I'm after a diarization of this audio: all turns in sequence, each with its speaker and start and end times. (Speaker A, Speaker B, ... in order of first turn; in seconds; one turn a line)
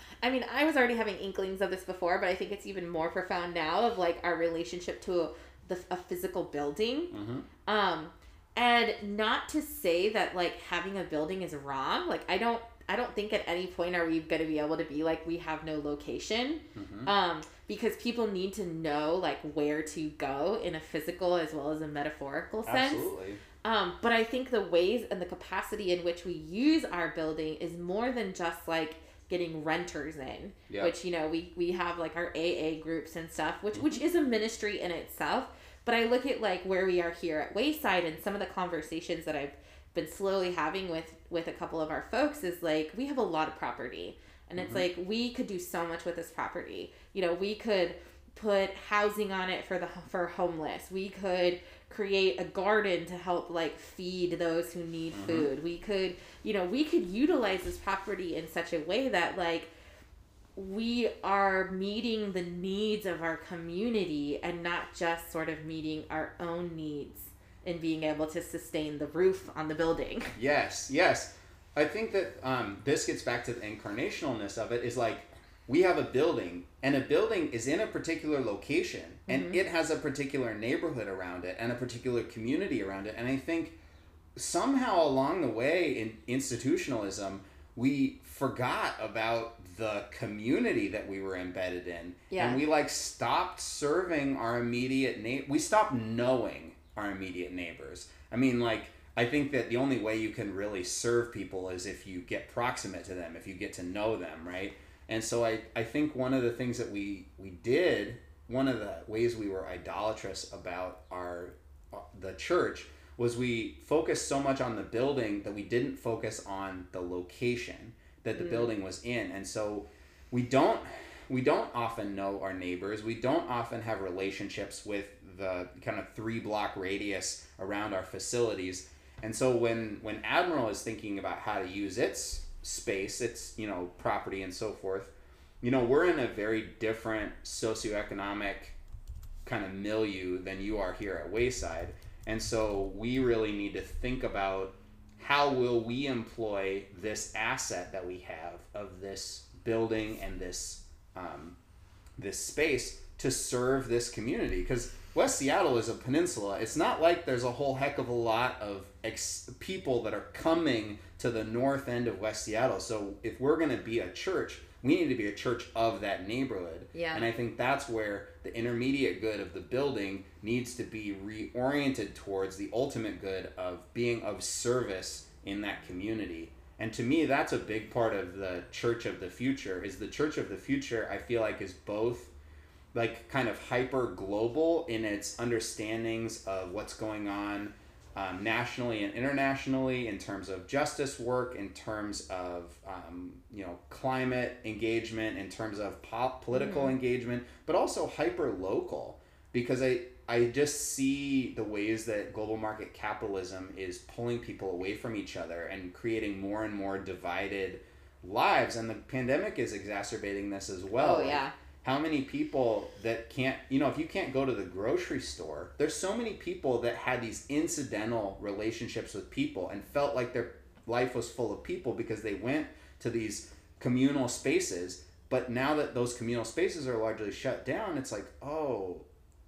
Speaker A: 0.2-7.1
Speaker B: 7.1-7.5
Speaker A: 7.7-23.1
Speaker B: 16.8-17.1
Speaker B: 22.6-23.4
Speaker A: 23.6-59.7
Speaker B: 33.7-34.0
Speaker B: 44.6-44.9
Speaker B: 55.1-55.5
Speaker A: 60.6-70.3
Speaker B: 70.4-83.8
Speaker A: 79.3-79.6
Speaker B: 84.4-138.8
Speaker A: 92.3-92.6
Speaker A: 118.4-118.7
Speaker B: 139.4-151.6
Speaker B: 152.2-182.3
Speaker A: 166.9-167.3
Speaker B: 182.9-229.1
Speaker A: 196.5-196.9
Speaker A: 211.0-211.5